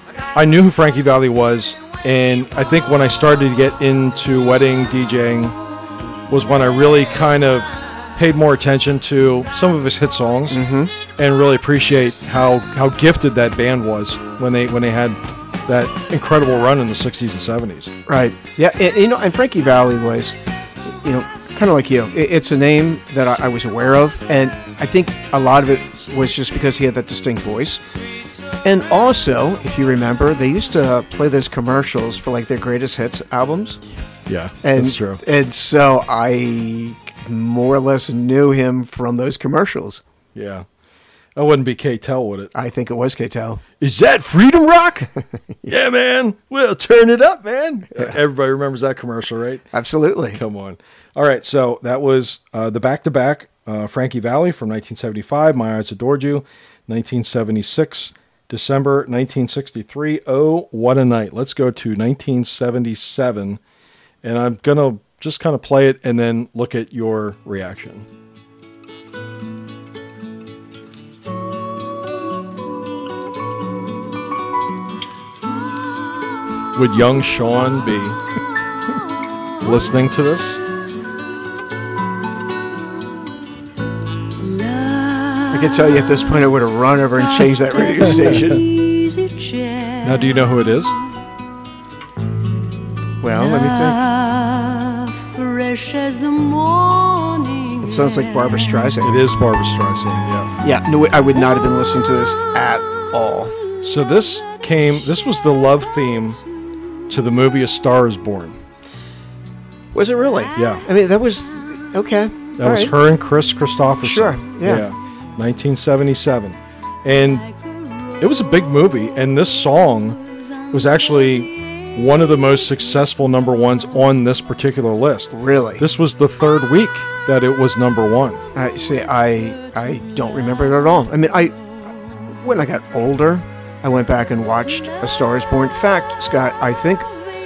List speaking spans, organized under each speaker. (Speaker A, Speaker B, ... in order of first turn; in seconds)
Speaker A: 0.3-5.6, 6.3-10.6, 11.2-17.9, 34.3-35.2, 40.4-40.7, 41.4-42.5, 43.8-45.1, 45.6-49.6, 50.3-63.6, 64.2-68.1, 76.8-78.2, 79.6-80.6, 90.0-91.0, 99.0-100.5, 103.8-106.4, 107.1-108.6, 110.5-110.8, 112.6-117.5, 118.2-120.2, 120.7-128.4
Speaker B: 10.5-10.9, 18.1-20.4, 21.0-27.9, 28.6-33.8, 34.6-40.0, 42.5-43.6, 49.7-50.4, 85.5-88.7, 93.2-94.0, 97.8-99.2, 100.6-103.6, 109.9-112.9, 114.0-114.9, 125.3-125.8, 128.6-131.6, 132.3-137.1
Speaker C: 84.4-90.3, 93.3-98.8